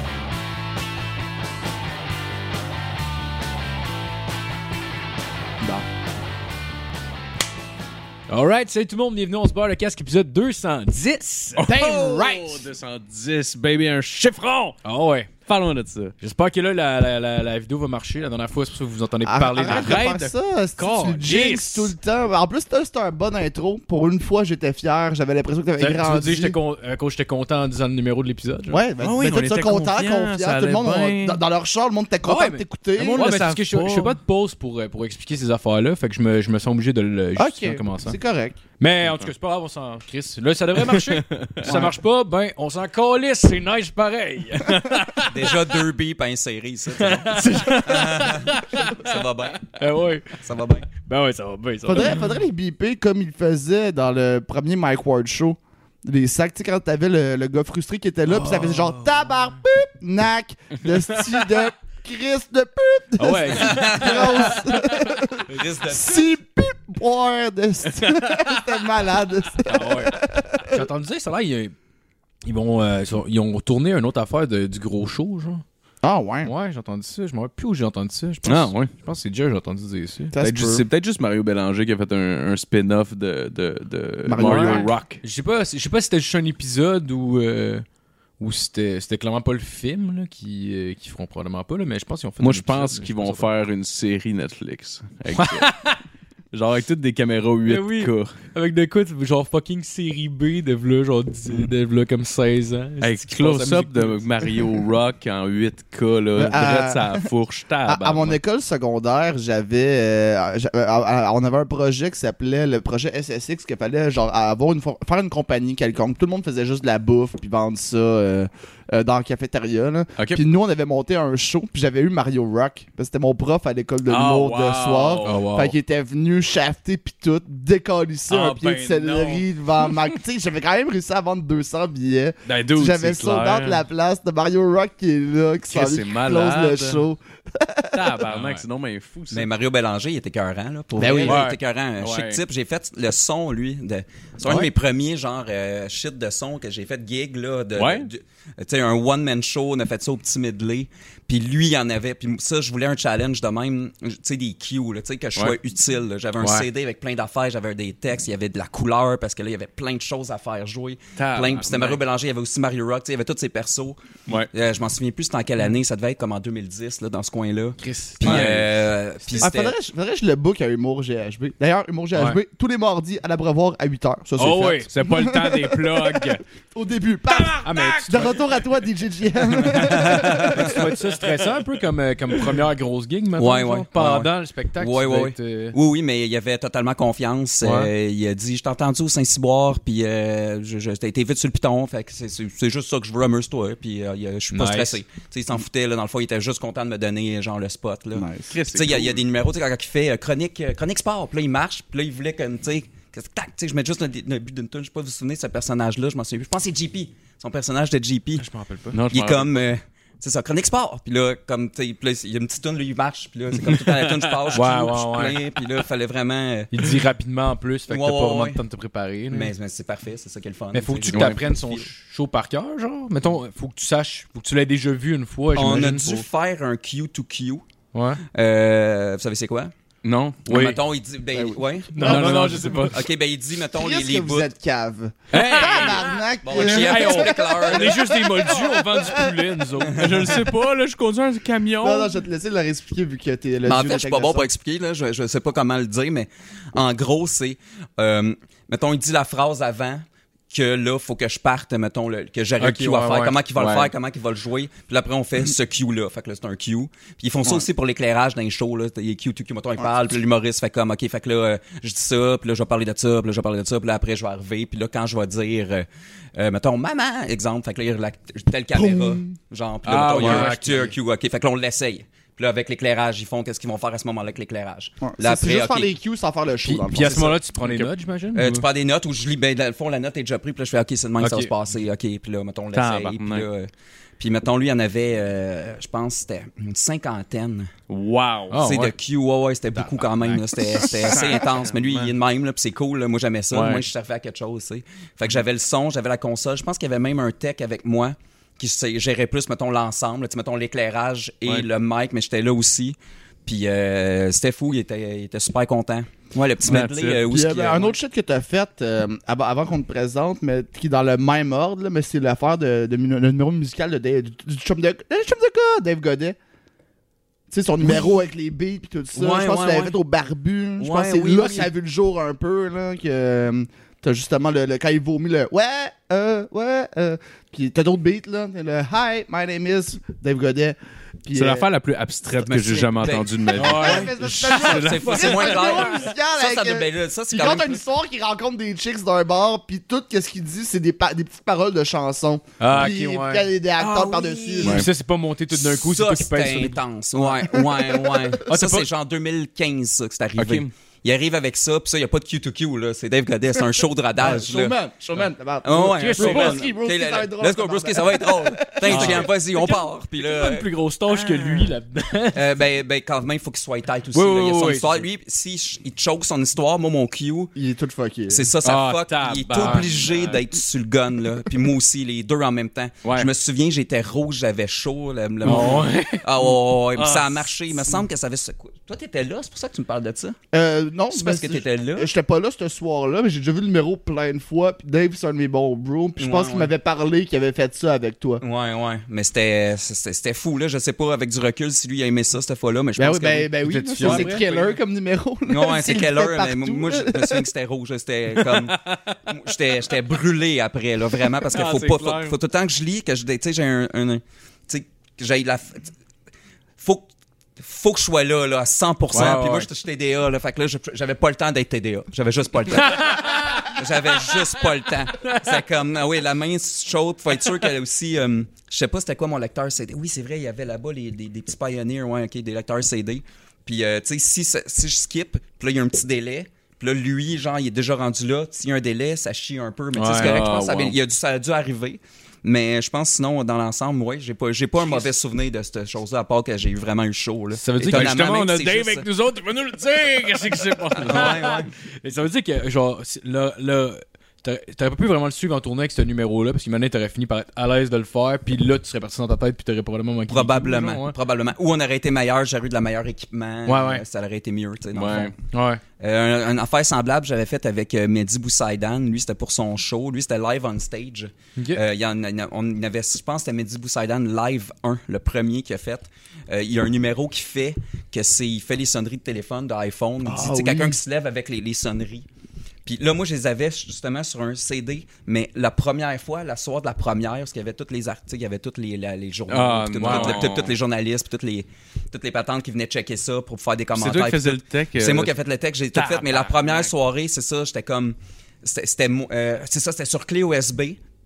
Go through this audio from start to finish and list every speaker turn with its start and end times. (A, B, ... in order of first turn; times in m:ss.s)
0:08.3-0:11.8 A
0:11.6-0:14.8 B
0:11.6-0:12.6 C
0:14.8-0:15.3 A
0:15.4-0:16.2 B
0:16.2-0:20.0 A
0:19.2-0:26.6 C
0:19.6-0:21.9 B
0:25.8-0:28.8 A
0:28.7-0:33.3 C
0:29.0-0:31.4 B
0:32.2-0:38.2 A
0:33.1-0:34.2 B
0:37.4-0:38.6 C
0:38.8-0:45.6 A
0:40.8-0:41.8 B
0:41.6-0:41.9 C
0:45.2-0:49.8 D
0:47.0-0:49.1 A
0:49.7-0:50.4 A
0:50.3-0:50.9 D
0:51.0-0:52.3 A
0:51.9-1:10.8 C
0:58.4-0:58.9 A
1:03.2-1:04.6 A
1:03.6-1:04.6 D
1:05.5-1:06.3 D
1:09.6-1:11.8 A
1:12.4-1:15.6 A
1:16.0-1:16.5 C
1:16.4-1:20.3 A
1:18.4-1:18.9 B
1:20.3-1:20.8 C
1:20.4-1:25.2 B
1:24.3-1:24.9 C
1:24.4-1:27.8 A
1:28.4-1:33.5 A
1:32.4-1:35.7 B
1:35.3-1:36.0 A
1:36.5-1:38.3 B
1:37.7-1:43.9 A
1:43.0-1:48.4 B
1:46.4-1:47.3 C
1:47.8-2:18.2 C
2:00.2-2:00.4 B
2:04.1-2:05.7 B
2:05.2-2:05.7 A
2:08.3-2:09.4 B
2:08.6-2:09.4 A
2:12.5-2:13.8 B
2:15.7-2:17.0 B
2:17.9-2:19.5 B
2:18.3-2:18.6 A
2:19.3-2:49.8 D
2:21.0-2:21.4 C
2:21.2-2:21.6 A
2:22.0-2:22.4 B
2:27.8-2:28.1 B
2:36.4-2:36.7 B
2:41.2-2:42.0 B
2:47.8-2:48.5 A
2:48.2-2:48.7 B
2:49.4-3:00.8 C
2:54.4-2:54.9 A
2:54.8-2:56.4 B
2:57.4-2:57.9 B
2:57.6-2:58.3 A
2:59.7-3:00.8 D
3:00.4-3:05.8 A
3:03.4-3:28.5 D
3:07.6-3:07.9 A
3:14.5-3:15.0 A
3:18.1-3:18.5 C
3:18.5-3:19.2 B
3:28.4-3:29.0 A
3:28.9-3:29.5 B
3:29.1-3:36.8 D
3:33.7-3:34.6 B
3:34.5-3:35.4 A
3:36.7-3:39.5 A
3:37.9-3:38.6 D
3:39.3-3:41.9 D
3:40.7-3:46.2 A
3:41.1-3:41.4 B
3:45.5-3:47.6 D
3:47.9-3:48.2 A
3:48.2-3:49.7 D
3:50.0-3:50.8 B
3:50.5-3:54.5 D
3:51.3-3:52.9 C
3:52.0-3:52.8 A
3:52.0-3:53.0 B
3:53.7-3:59.5 C
3:55.3-3:56.2 B
3:56.4-3:58.5 D
3:56.6-4:00.1 A
3:59.8-4:00.3 D
4:00.0-4:02.1 B
4:01.8-4:04.5 C
4:03.6-4:35.9 D
4:12.6-4:13.4 A
4:13.6-4:13.9 B
4:28.7-4:29.3 C
4:29.9-4:30.6 B
4:30.0-4:31.0 A
4:35.0-4:37.4 C
4:36.7-4:38.6 A
4:37.1-4:37.9 B
4:38.4-4:47.7 D
4:41.2-4:41.5 A
4:42.7-4:43.5 B
4:47.9-4:48.6 B
4:48.5-4:48.9 A
4:48.6-5:08.0 D
4:49.7-4:52.1 B
4:53.5-4:53.9 B
5:06.6-5:07.2 B
5:07.2-5:16.4 C
5:17.5-5:31.7 C
5:19.2-5:20.0 D
5:20.8-5:21.7 D
5:31.3-5:35.9 B
5:32.4-5:37.8 D
5:33.6-5:44.9 C
5:33.6-5:34.1 A
5:42.6-5:43.5 A
5:43.8-5:44.7 D
5:44.6-5:44.9 B
5:44.6-5:46.8 A
5:45.6-5:54.8 D
5:47.2-5:48.4 C
5:48.5-5:48.9 A
5:50.4-5:50.7 B
5:54.2-5:59.2 C
5:55.6-6:01.7 D
5:56.0-5:56.8 A
5:58.9-6:02.4 A
5:58.9-5:59.2 B
6:02.3-6:07.5 D
6:04.1-6:05.1 A
6:07.6-6:08.5 C
6:08.3-6:20.4 D
6:08.6-6:10.4 B
6:09.5-6:10.1 A
6:13.0-6:13.3 B
6:15.4-6:16.2 A
6:15.4-6:16.0 B
6:17.0-6:17.2 B
6:17.2-6:17.4 A
6:20.5-6:28.4 C
6:21.1-6:22.1 D
6:26.2-6:26.7 D
6:28.4-6:33.5 D
6:33.0-6:37.5 C
6:33.6-6:34.8 A
6:34.0-6:34.3 B
6:35.5-6:45.9 D
6:38.6-6:39.2 B
6:41.5-6:42.4 B
6:46.8-6:47.1 D
6:47.6-7:19.1 D
6:49.1-6:49.6 B
6:49.2-6:49.5 A
6:53.0-6:53.8 A
7:10.0-7:10.4 A
7:10.0-7:11.0 B
7:17.6-7:18.4 A
7:17.8-7:21.6 B
7:19.4-7:31.2 A
7:21.0-7:21.7 D
7:30.3-7:35.3 D
7:33.7-7:34.0 A
7:34.9-7:35.3 B
7:35.5-7:35.8 A
7:36.0-7:52.3 D
7:41.6-7:41.8 A
7:50.2-7:51.0 C
7:52.9-8:11.0 D
7:59.5-8:00.8 B
8:00.0-8:00.4 A
8:03.9-8:05.3 B
8:05.9-8:06.9 B